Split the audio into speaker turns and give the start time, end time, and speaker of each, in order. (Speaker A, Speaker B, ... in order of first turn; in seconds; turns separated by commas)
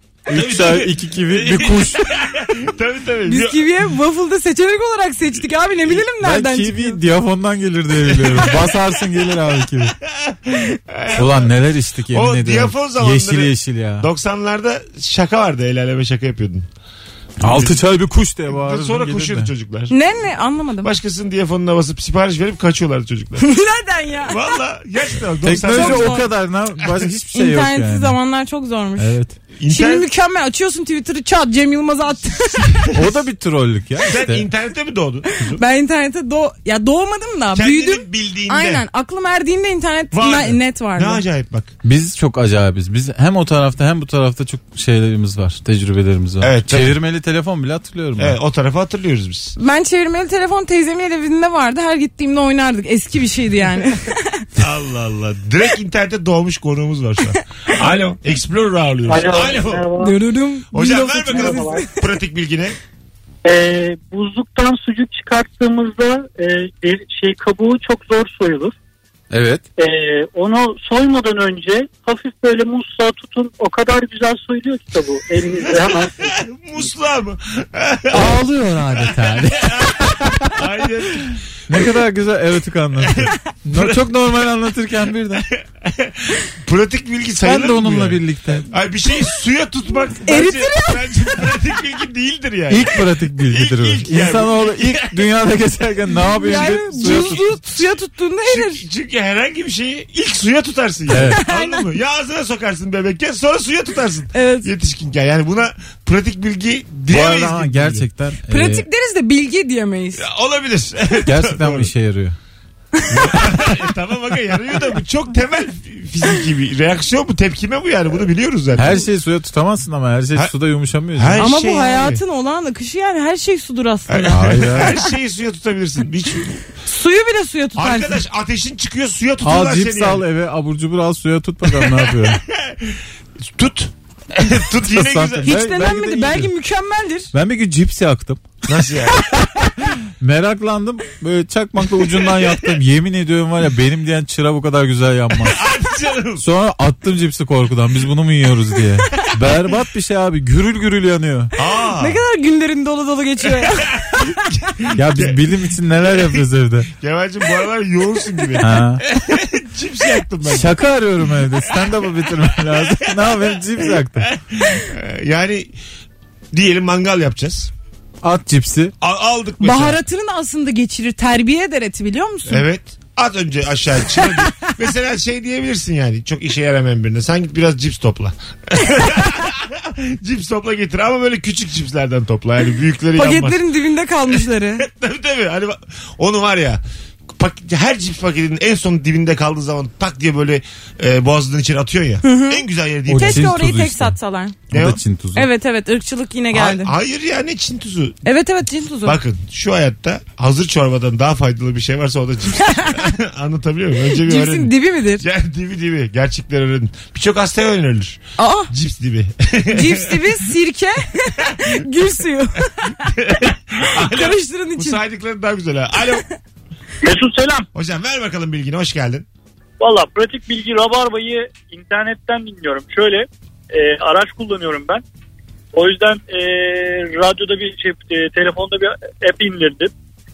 Speaker A: 0.3-2.0, Speaker B: 0.3-3.6, Speaker C: 3.3-7.0, Speaker A: 6.2-9.9, Speaker B: 8.0-8.7, Speaker B: 10.1-11.5, Speaker A: 11.1-14.1, Speaker B: 12.1-16.7, Speaker A: 17.4-19.5, Speaker B: 17.4-17.8, Speaker B: 18.5-19.9, Speaker C: 19.9-20.9, Speaker B: 20.8-23.4, Speaker C: 23.4-24.6, Speaker B: 24.3-26.2, Speaker A: 25.4-28.2, Speaker C: 25.5-26.3, Speaker C: 27.3-29.2, Speaker A: 29.0-29.4, Speaker B: 29.6-30.1, Speaker C: 29.7-32.9, Speaker A: 32.9-34.5, Speaker B: 34.1-35.6, Speaker C: 35.5-41.2, Speaker B: 37.5-38.8, Speaker B: 40.1-41.7, Speaker A: 41.8-48.4, Speaker B: 46.4-47.0, Speaker B: 48.2-49.5, Speaker C: 49.5-54.5, Speaker B: 54.6-59.9, Speaker C: 60.0-61.9, Speaker B: 60.7-62.8, Speaker D: 63.4-68.7, Speaker A: 69.3-69.6, Speaker D: 69.8-76.3, Speaker B: 75.8-81.8, Speaker A: 78.1-80.5, Speaker A: 81.7-85.5, Speaker B: 83.0-84.0, Speaker B: 85.5-95.3, Speaker A: 87.4-88.7, Speaker C: 90.2-91.3, Speaker A: 92.7-97.6, Speaker C: 96.2-98.8, Speaker B: 98.4-108.0, Speaker A: 101.1-101.4, Speaker C: 101.1-101.8, Speaker C: 104.3-104.7, Speaker A: 107.1-108.8, Speaker C: 108.5-110.2, Speaker B: 110.2-111.9, Speaker A: 111.2-112.3, Speaker C: 113.0-113.4, Speaker B: 113.1-119.0, Speaker A: 118.8-121.5, Speaker B: 121.2-122.2, Speaker C: 121.4-125.0, Speaker B: 124.1-126.5, Speaker A: 124.3-125.0, Speaker C: 126.8-128.2, Speaker B: 127.8-130.2, Speaker A: 129.4-132.4, Speaker B: 131.7-135.5, Speaker A: 134.9-136.5, Speaker C: 135.4-137.3, Speaker A: 137.3-138.4, Speaker B: 138.7-139.3, Speaker A: 140.2-145.6, Speaker B: 145.4-146.4, Speaker A: 146.4-151.5, Speaker B: 151.6-152.2, Speaker C: 152.0-154.3, Speaker B: 153.6-155.4, Speaker A: 154.9-156.9, Speaker B: 156.0-160.8, Speaker A: 158.6-159.0, Speaker A: 160.4-164.3, Speaker B: 161.7-165.7, Speaker B: 166.5-167.7, Speaker A: 168.2-168.9, Speaker B: 169.0-170.0, Speaker C: 169.6-172.7, Speaker B: 172.5-183.6, Speaker C: 174.2-174.7, Speaker C: 183.1-184.8, Speaker B: 184.3-186.8, Speaker B: 187.3-193.5, Speaker C: 192.2-194.6, Speaker A: 193.1-194.2, Speaker A: 194.7-195.5, Speaker B: 194.7-195.0, Speaker C: 195.3-196.9, Speaker B: 196.5-198.2, Speaker C: 198.2-199.2, Speaker B: 199.0-210.3, Speaker C: 202.5-203.1, Speaker C: 204.0-205.2, Speaker C: 208.4-208.7, Speaker C: 209.7-213.1, Speaker B: 213.1-216.2, Speaker C: 214.0-215.0, Speaker D: 217.1-217.5, Speaker B: 217.7-219.2, Speaker E: 219.8-225.0, Speaker E: 225.7-229.9